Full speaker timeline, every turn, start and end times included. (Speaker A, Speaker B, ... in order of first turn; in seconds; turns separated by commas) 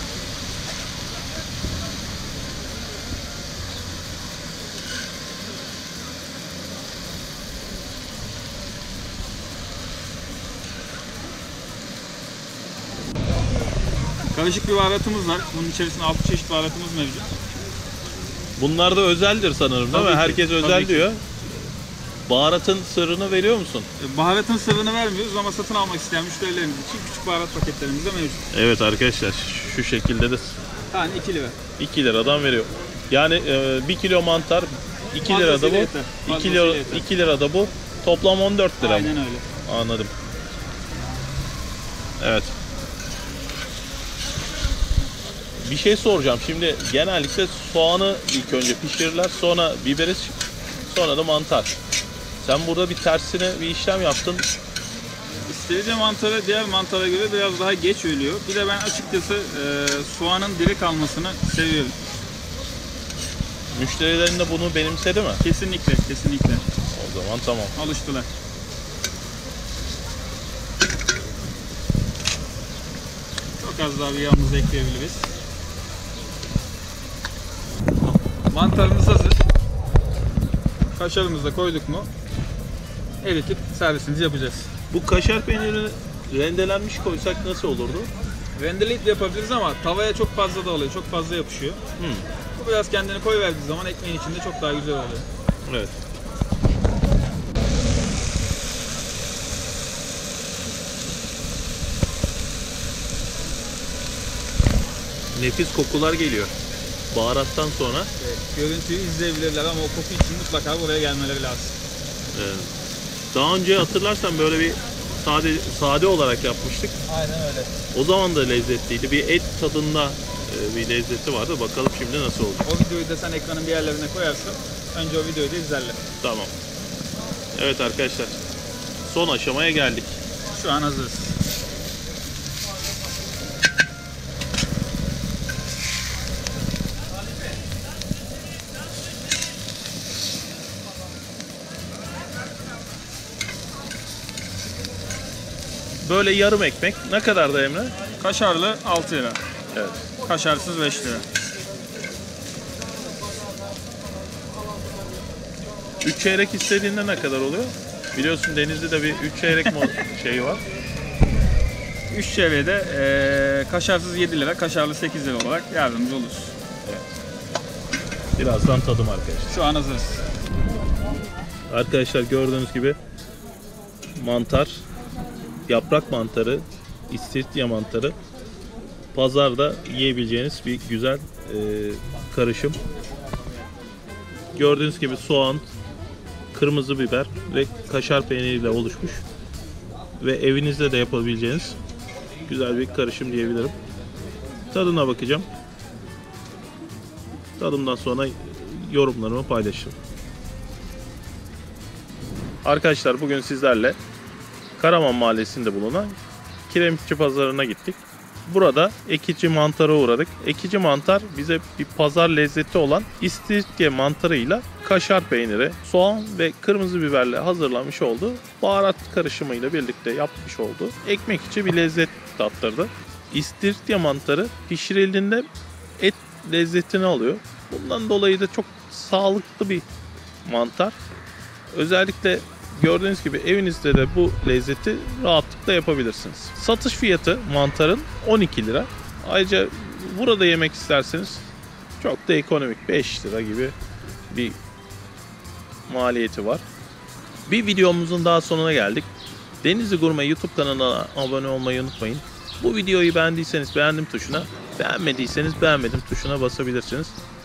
Speaker A: 14.3-17.3, Speaker B: 18.6-21.5, Speaker A: 19.9-21.1, Speaker B: 22.3-23.9, Speaker A: 24.0-28.4, Speaker B: 28.5-30.6, Speaker A: 30.9-31.6, Speaker B: 31.8-40.1, Speaker A: 35.2-37.0, Speaker A: 38.8-39.5, Speaker B: 42.2-42.5, Speaker B: 45.6-51.7, Speaker B: 52.4-54.5, Speaker A: 55.5-62.0, Speaker B: 63.7-65.4, Speaker A: 65.4-66.7, Speaker B: 66.9-67.7, Speaker A: 67.7-68.3, Speaker A: 73.6-75.3, Speaker A: 78.5-79.4, Speaker A: 81.0-82.1, Speaker A: 83.2-84.7, Speaker B: 84.9-88.1, Speaker A: 88.5-91.8, Speaker B: 92.0-92.3, Speaker A: 92.5-95.2, Speaker B: 95.6-95.9, Speaker B: 105.3-106.5, Speaker B: 107.1-108.1, Speaker A: 108.2-111.8, Speaker B: 112.3-112.7, Speaker B: 113.3-117.0, Speaker A: 117.1-117.7, Speaker B: 117.9-122.7, Speaker A: 122.6-126.0, Speaker B: 126.2-126.5, Speaker B: 127.5-128.4, Speaker B: 129.0-130.2, Speaker A: 130.5-131.3, Speaker B: 146.0-147.9, Speaker A: 148.2-149.4, Speaker B: 149.7-150.0, Speaker A: 150.2-151.2, Speaker B: 156.0-160.6, Speaker A: 159.6-159.9, Speaker A: 162.1-166.5, Speaker B: 166.8-167.1, Speaker B: 168.4-169.5, Speaker A: 169.5-170.2, Speaker B: 171.7-173.0, Speaker B: 174.1-174.8, Speaker B: 175.7-178.2, Speaker B: 179.1-182.8, Speaker B: 184.5-185.7, Speaker B: 186.5-189.2, Speaker B: 190.2-191.8, Speaker B: 192.5-193.7, Speaker B: 194.7-195.4, Speaker B: 197.6-199.9, Speaker B: 202.6-204.0, Speaker B: 204.8-206.2, Speaker B: 206.7-225.5, Speaker B: 226.0-229.8, Speaker B: 230.4-230.9, Speaker B: 231.7-241.5, Speaker B: 242.0-243.7, Speaker B: 244.3-244.6, Speaker B: 245.9-246.6, Speaker B: 247.5-249.1, Speaker B: 249.6-257.1